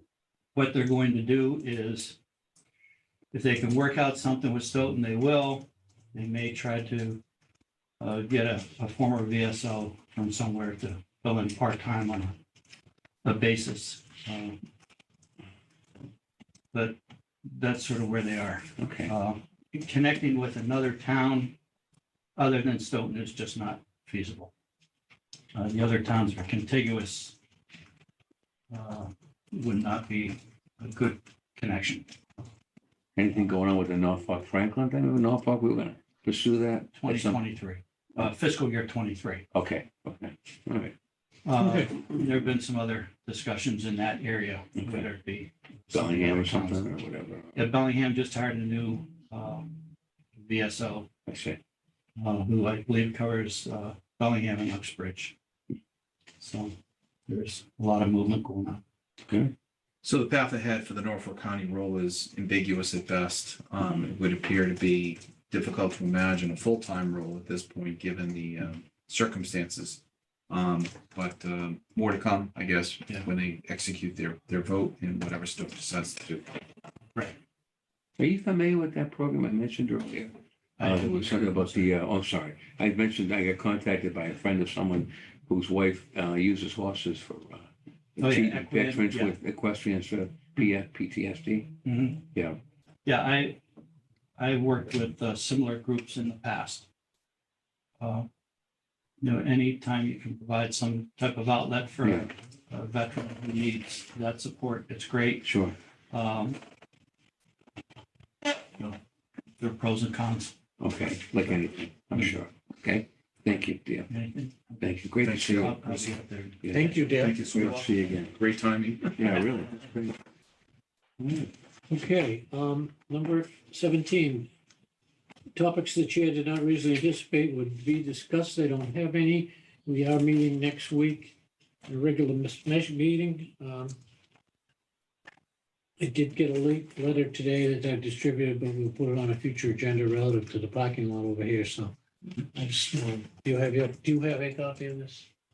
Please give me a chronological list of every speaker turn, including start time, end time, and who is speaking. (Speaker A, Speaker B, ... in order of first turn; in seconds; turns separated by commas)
Speaker A: 0.5-2.2, Speaker A: 3.3-7.2, Speaker A: 8.0-12.4, Speaker A: 13.2-14.6, Speaker A: 16.7-21.6, Speaker B: 18.8-19.1, Speaker A: 22.4-24.5, Speaker A: 25.5-27.4, Speaker A: 28.7-32.1, Speaker B: 33.2-37.4, Speaker A: 37.0-39.4, Speaker B: 39.5-40.9, Speaker A: 41.5-46.9, Speaker C: 41.6-41.9, Speaker B: 44.8-45.1, Speaker B: 45.9-47.6, Speaker A: 47.5-49.8, Speaker A: 50.4-51.1, Speaker B: 51.3-51.6, Speaker A: 52.2-55.3, Speaker A: 56.4-56.8, Speaker A: 57.3-58.8, Speaker B: 59.3-59.5, Speaker D: 60.0-76.6, Speaker B: 78.2-91.7, Speaker A: 80.8-81.9, Speaker A: 88.2-89.3, Speaker A: 91.8-92.2, Speaker A: 93.0-93.6, Speaker A: 94.4-96.9, Speaker A: 98.0-98.3, Speaker A: 99.2-105.5, Speaker B: 102.0-102.3, Speaker B: 105.4-105.8, Speaker A: 106.1-106.6, Speaker A: 109.6-110.6, Speaker B: 110.8-114.1, Speaker A: 114.1-117.1, Speaker B: 114.8-118.3, Speaker D: 115.2-115.7, Speaker C: 116.7-117.3, Speaker D: 117.1-119.3, Speaker B: 119.2-120.2, Speaker B: 121.2-121.5, Speaker C: 121.9-124.5, Speaker C: 125.5-131.3, Speaker C: 131.9-133.9, Speaker C: 136.0-141.9, Speaker C: 142.5-145.3